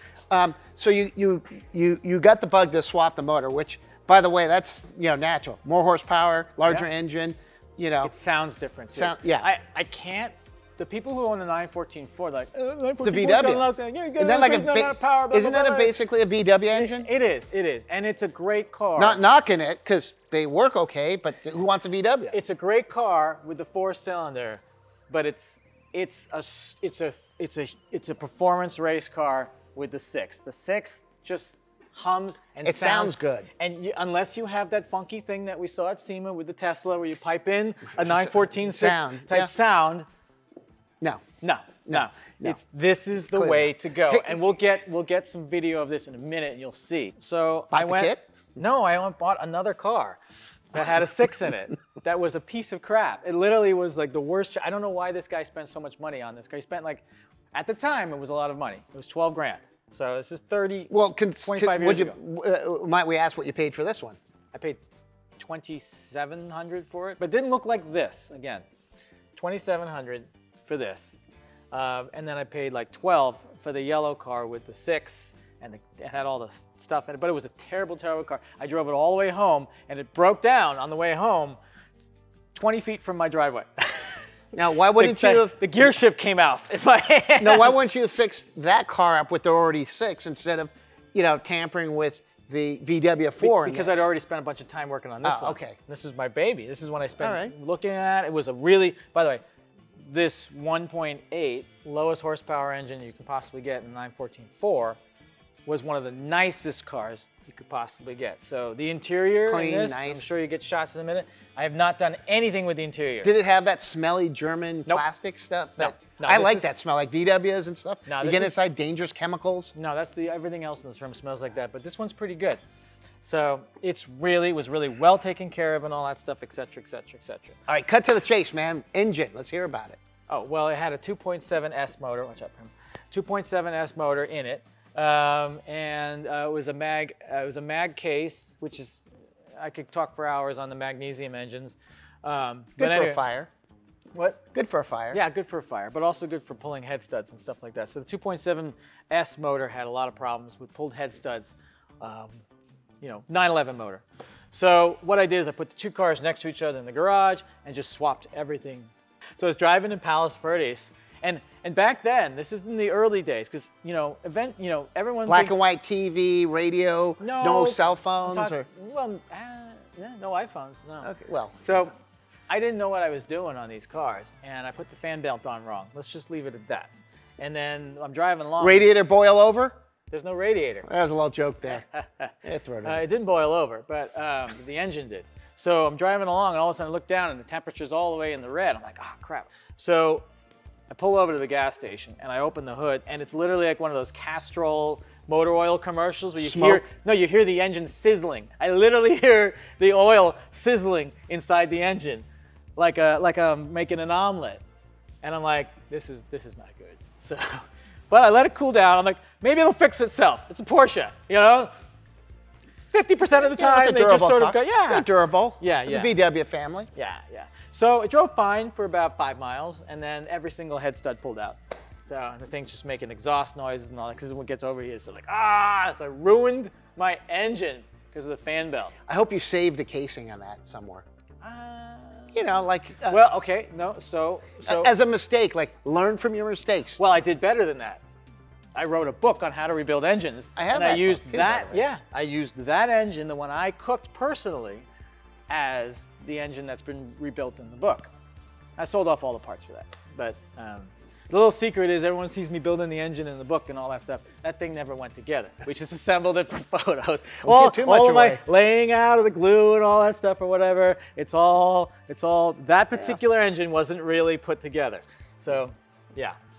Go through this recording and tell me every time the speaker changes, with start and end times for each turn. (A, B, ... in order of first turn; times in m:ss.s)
0:00.3-0:08.1 A
0:08.0-0:16.0 B
0:08.9-0:09.4 A
0:13.0-0:13.7 A
0:14.2-0:17.1 A
0:16.7-0:19.2 B
0:19.0-0:22.3 A
0:22.3-0:40.1 B
0:32.6-0:33.5 A
0:38.0-0:39.5 A
0:41.4-0:50.2 B
0:41.8-0:42.6 A
0:43.3-0:44.4 A
0:47.7-0:48.3 A
0:50.7-1:02.1 B
1:00.9-1:04.2 A
1:04.5-1:04.8 B
1:05.4-1:08.6 B
1:09.3-1:11.2 B
1:11.7-1:21.6 B
1:22.5-1:24.3 B
1:24.5-1:25.9 A
1:25.0-1:27.8 B
1:27.4-1:34.0 A
1:33.4-1:39.4 B
1:35.2-1:35.8 A
1:37.2-1:37.5 A
1:40.0-1:45.0 B
1:45.6-1:53.3 B
1:49.4-1:50.3 A
1:53.2-1:59.7 A
1:55.8-1:56.7 B
1:58.1-1:58.6 B
1:59.8-2:02.6 B
2:03.2-2:07.6 B
2:07.7-2:10.0 A
2:10.3-2:23.2 B
2:22.8-2:23.5 A
2:24.1-2:24.4 B
2:24.5-2:25.2 A
2:25.1-2:32.4 B
2:33.0-2:45.6 B
2:45.3-2:48.6 A
2:47.2-2:51.1 B
2:51.0-2:51.8 A
2:51.6-2:51.9 B
2:52.5-2:58.8 B
2:58.6-2:59.7 A
3:00.1-3:00.9 B
3:00.8-3:01.8 A
3:01.7-3:10.2 B
3:02.4-3:03.0 A
3:10.9-3:22.2 B
3:16.4-3:16.8 A
3:22.8-3:24.6 B
3:25.2-3:31.7 B
3:32.9-3:35.1 B
3:33.3-3:36.9 A
3:35.6-3:36.1 B
3:37.0-3:48.9 B
3:49.1-3:51.0 A
3:51.4-3:52.4 B
3:52.3-3:53.2 A
3:53.0-3:54.9 B
3:54.6-3:57.0 A
3:57.0-3:58.0 B
3:58.7-4:04.8 B
4:00.6-4:01.8 A
4:05.5-4:08.1 B
4:08.8-4:26.4 B
4:17.4-4:18.4 A